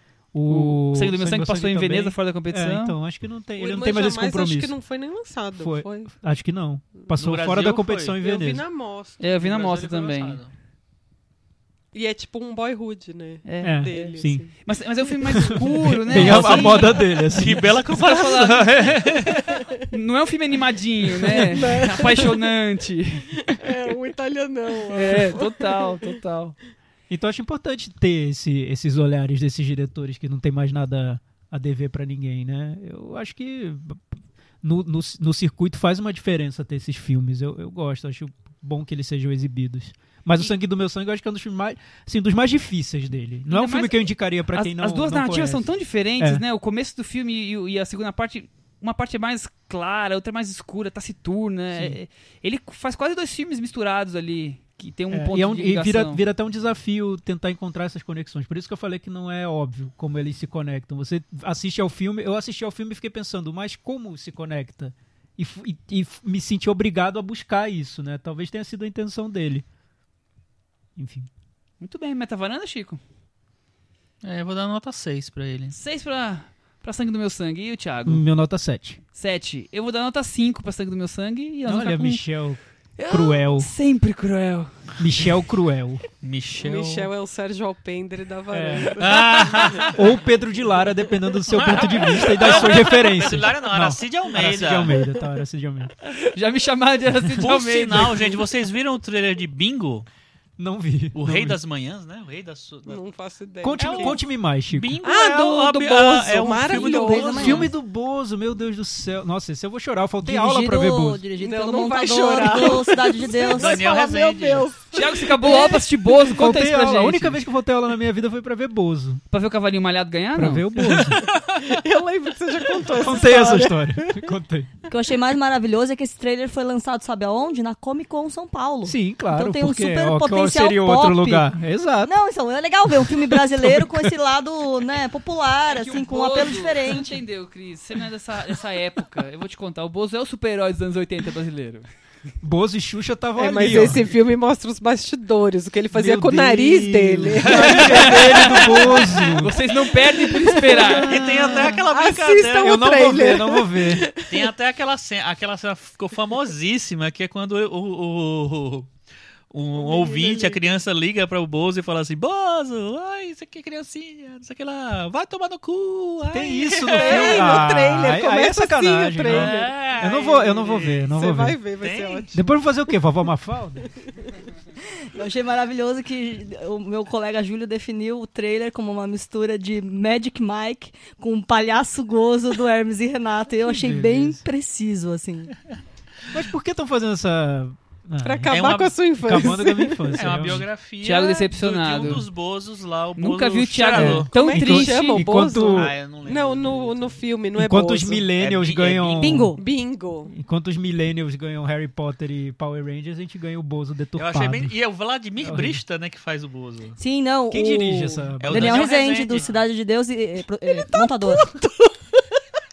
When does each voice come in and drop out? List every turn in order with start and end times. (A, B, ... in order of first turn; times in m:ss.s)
0:00.3-0:04.8 A
0:00.5-0:03.0 B
0:03.6-0:06.1 C
0:05.6-0:08.6 A
0:07.2-0:08.2 D
0:08.2-0:09.3 C
0:09.2-0:10.4 B
0:09.4-0:10.5 D
0:11.9-0:14.5 C
0:13.4-0:17.3 B
0:13.6-0:14.5 A
0:15.3-0:17.7 A
0:16.1-0:19.7 D
0:17.8-0:19.0 B
0:19.3-0:19.7 C
0:19.9-0:23.6 B
0:21.4-0:22.4 C
0:23.4-0:26.1 C
0:24.9-0:26.6 B
0:27.1-0:46.4 A
0:43.5-0:56.2 B
0:55.1-1:09.6 A
1:11.0-1:11.3 A
1:11.8-1:13.0 B
1:14.2-1:15.8 D
1:15.7-1:18.2 B
1:18.1-1:19.0 A
1:19.2-1:22.2 B
1:21.7-1:23.7 A
1:23.0-1:24.8 B
1:25.0-1:26.0 A
1:26.2-1:27.1 D
1:26.6-1:29.9 C
1:28.5-1:29.0 A
1:29.0-1:30.0 D
1:29.8-1:35.9 A
1:31.5-1:35.0 D
1:36.0-1:38.4 B
1:37.4-1:40.1 D
1:40.6-1:41.6 A
1:41.2-1:43.0 D
1:42.9-1:44.2 C
1:43.6-1:45.0 A
1:43.8-1:44.2 D
1:44.7-1:47.7 D
1:45.0-1:47.7 C
1:46.8-1:47.2 E
1:47.2-1:51.2 A
1:50.2-1:53.8 E
1:51.4-1:55.8 C
1:53.6-1:54.7 D
1:54.9-1:57.4 B
1:56.1-1:59.2 A
1:59.3-2:01.0 B
2:00.4-2:01.2 A
2:01.0-2:01.3 D
2:01.6-2:04.3 C
2:02.9-2:04.8 A
2:04.9-2:11.5 E
2:08.8-2:12.1 A
2:12.0-2:17.2 E
2:12.9-2:14.1 A
2:15.7-2:21.9 B
2:22.4-2:24.1 A
2:23.4-2:29.3 C
2:25.9-2:29.6 A
2:27.4-2:29.4 D
2:29.4-2:31.2 B
2:29.8-2:34.5 C
2:30.9-2:33.0 D
2:31.3-2:31.8 A
2:32.6-2:34.1 A
2:34.3-2:38.9 D
2:39.5-2:47.7 D
2:39.8-2:40.7 C
2:46.3-2:51.6 A
2:46.6-2:52.5 C
2:49.2-2:51.1 D
2:51.8-2:52.4 D
2:52.3-2:53.9 A
2:55.1-3:05.6 E
3:03.6-3:04.4 A
3:06.3-3:10.7 A
3:08.2-3:10.1 C
3:08.5-3:09.5 D
3:10.1-3:14.3 D
3:11.0-3:12.3 B
3:13.2-3:15.3 B
3:14.0-3:16.0 A
3:14.3-3:18.3 C
3:15.6-3:17.2 D
3:17.6-3:19.6 A
3:18.4-3:19.4 D
3:19.2-3:19.6 E
3:19.5-3:20.3 C
3:20.3-3:24.8 A
3:24.2-3:27.0 D
3:25.4-3:25.8 A
3:27.0-3:31.6 E
3:27.5-3:28.9 A
3:28.4-3:29.6 D
3:31.5-3:31.9 C